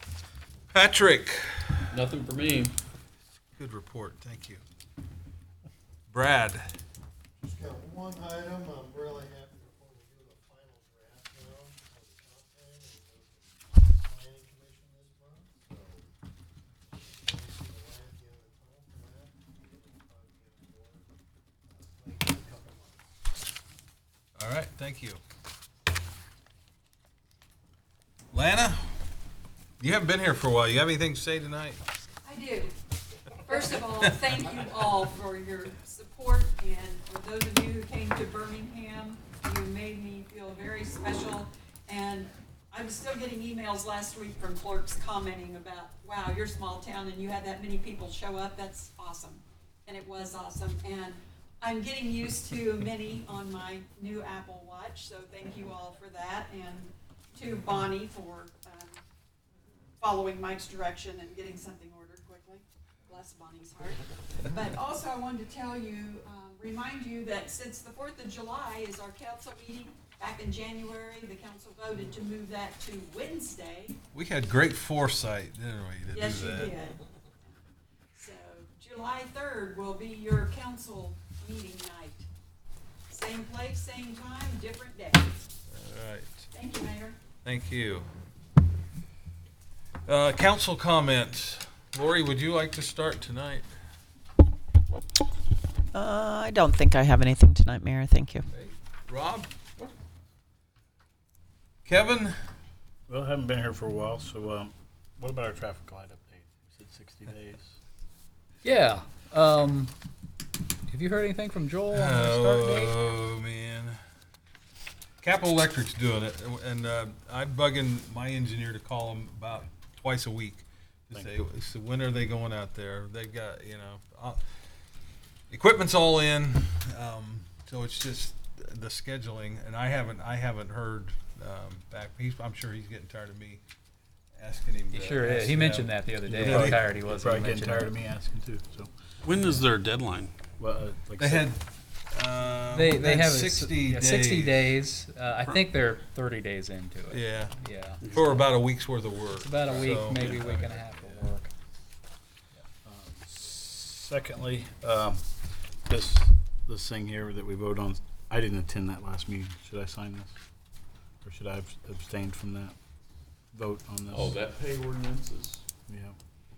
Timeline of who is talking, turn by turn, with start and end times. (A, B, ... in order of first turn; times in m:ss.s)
0:00.7-0:02.0 A
0:01.9-0:02.8 B
0:03.6-0:04.6 A
0:06.1-0:06.7 A
0:07.4-0:16.1 C
0:17.0-0:21.0 C
0:21.7-0:23.0 C
0:24.4-0:25.2 A
0:28.3-0:28.8 A
0:29.8-0:31.8 A
0:32.2-0:32.7 D
0:33.4-0:59.0 D
1:00.0-1:14.0 D
1:14.1-1:16.7 A
1:16.1-1:17.0 D
1:18.1-1:22.2 D
1:23.1-1:25.3 D
1:25.7-1:26.4 A
1:26.5-1:27.2 D
1:27.4-1:28.1 A
1:30.1-1:33.7 A
1:35.9-1:38.4 E
1:38.5-1:39.5 A
1:41.8-1:42.3 A
1:43.1-1:47.8 F
1:48.6-1:49.9 G
1:50.9-1:53.0 G
1:51.9-1:54.0 A
1:55.2-2:04.4 A
2:05.5-2:13.6 A
2:14.4-2:16.8 A
2:14.9-2:17.9 G
2:16.3-2:18.9 F
2:19.2-2:20.3 B
2:20.6-2:21.5 F
2:21.2-2:24.7 A
2:22.7-2:28.4 G
2:27.1-2:31.0 A
2:29.3-2:31.5 G
2:32.8-2:35.3 F
2:35.8-2:40.4 F
2:41.2-2:42.8 F
2:43.5-2:44.4 F
2:44.1-2:45.6 B
2:45.9-2:46.1 F